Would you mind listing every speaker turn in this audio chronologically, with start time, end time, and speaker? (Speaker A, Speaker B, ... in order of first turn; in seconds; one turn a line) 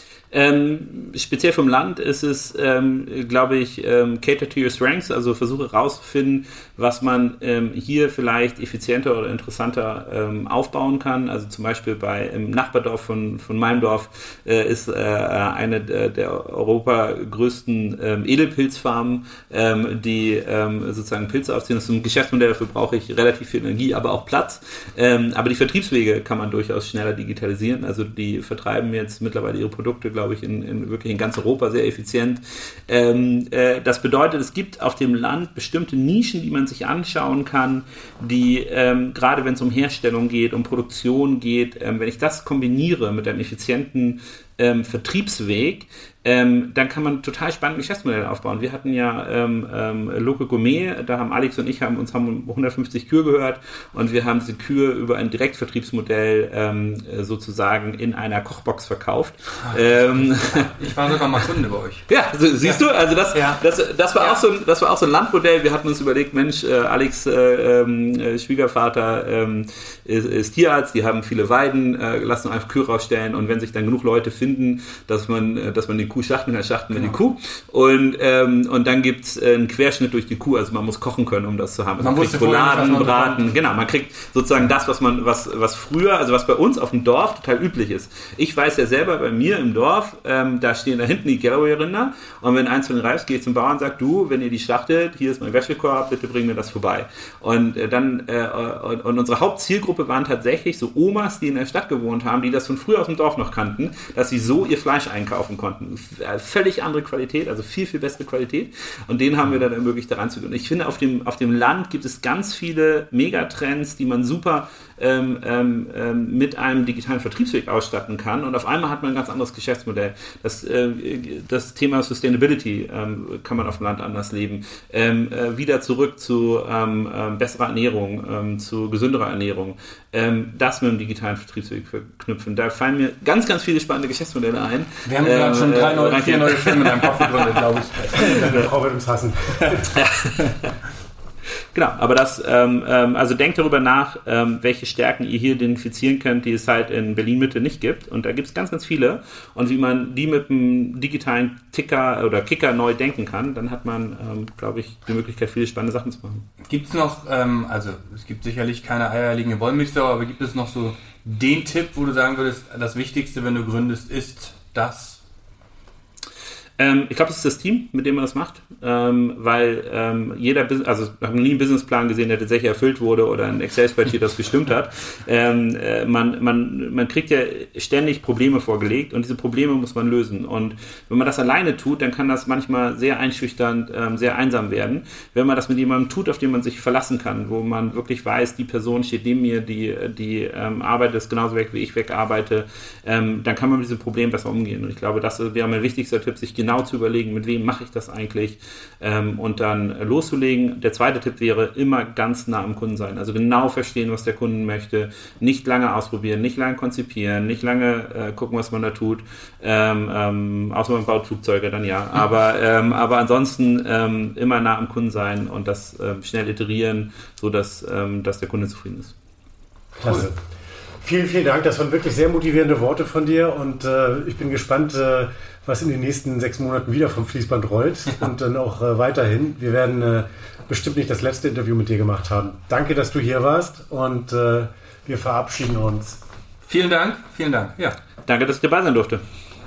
Speaker A: 0.3-60.7
Speaker B: 59.6-62.1
Speaker A: 62.1-137.5
Speaker B: 62.6-63.6
Speaker B: 82.0-83.5
Speaker B: 135.1-138.7
Speaker C: 138.2-139.9
Speaker A: 139.9-140.7
Speaker A: 141.7-156.4
Speaker B: 156.7-165.2
Speaker A: 166.8-219.1
Speaker C: 220.0-220.4
Speaker C: 221.0-236.2
Speaker B: 236.7-238.0
Speaker A: 238.3-239.2